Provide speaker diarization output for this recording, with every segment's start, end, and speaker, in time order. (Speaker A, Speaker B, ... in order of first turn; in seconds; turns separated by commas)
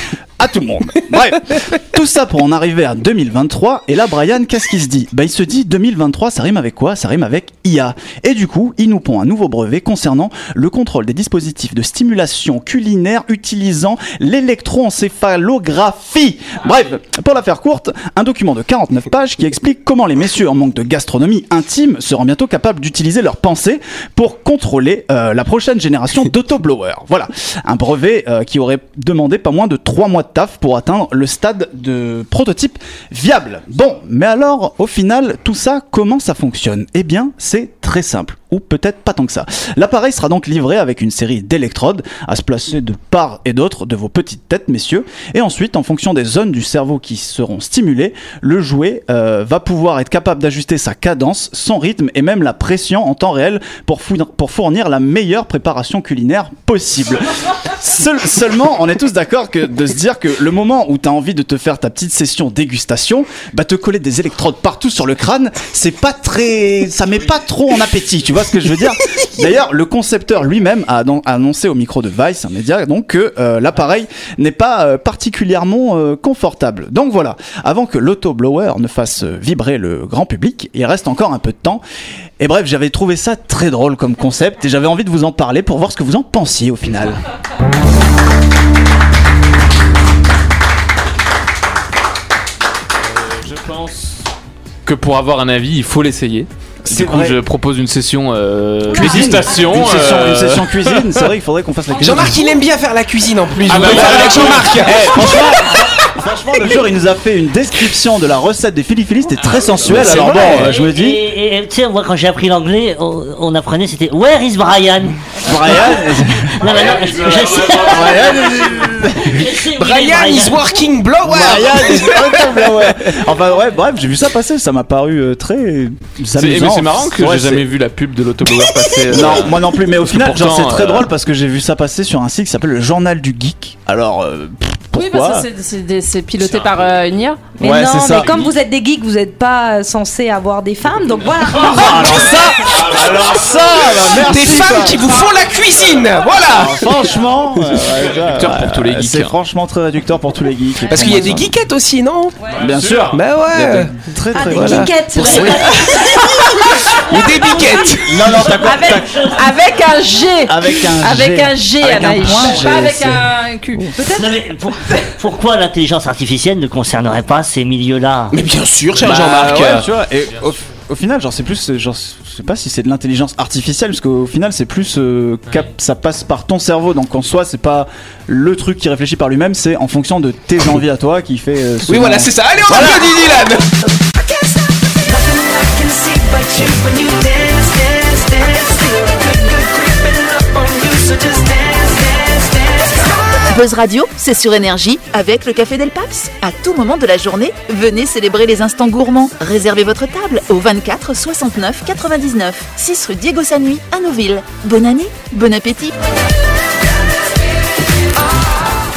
Speaker A: 0.4-81.8, Speaker A: 82.4-87.2, Speaker B: 93.2-94.1, Speaker B: 94.8-101.3, Speaker A: 96.8-97.4, Speaker A: 99.0-102.5, Speaker C: 102.0-105.2, Speaker B: 103.6-105.5, Speaker A: 103.8-111.2, Speaker B: 109.5-110.7, Speaker D: 110.2-116.0, Speaker A: 115.4-116.6, Speaker D: 116.6-118.7, Speaker B: 116.7-118.5, Speaker A: 117.8-119.5, Speaker D: 119.2-120.6, Speaker C: 119.7-123.1, Speaker A: 121.2-127.6, Speaker B: 126.3-129.5, Speaker A: 129.1-135.5, Speaker B: 130.1-131.1, Speaker E: 134.9-137.5, Speaker B: 136.4-136.8, Speaker F: 137.6-142.4, Speaker A: 137.6-138.4, Speaker B: 138.2-138.5, Speaker B: 141.3-142.1, Speaker A: 141.7-145.1, Speaker B: 142.7-143.3, Speaker C: 144.2-146.8, Speaker A: 146.5-151.5, Speaker C: 147.5-147.8, Speaker B: 148.0-149.3, Speaker C: 150.9-152.4, Speaker B: 152.5-153.2, Speaker A: 152.6-155.7, Speaker C: 153.1-153.9, Speaker F: 154.3-157.9, Speaker C: 154.5-158.3, Speaker A: 158.1-159.1, Speaker D: 158.1-159.4, Speaker F: 158.6-160.8, Speaker E: 159.4-163.9, Speaker A: 160.5-163.2, Speaker B: 162.2-162.8, Speaker F: 163.9-164.3, Speaker D: 164.2-168.3, Speaker C: 168.3-169.8, Speaker B: 168.9-170.5, Speaker A: 169.0-183.1, Speaker C: 181.8-183.7, Speaker F: 185.1-193.3, Speaker G: 193.5-205.9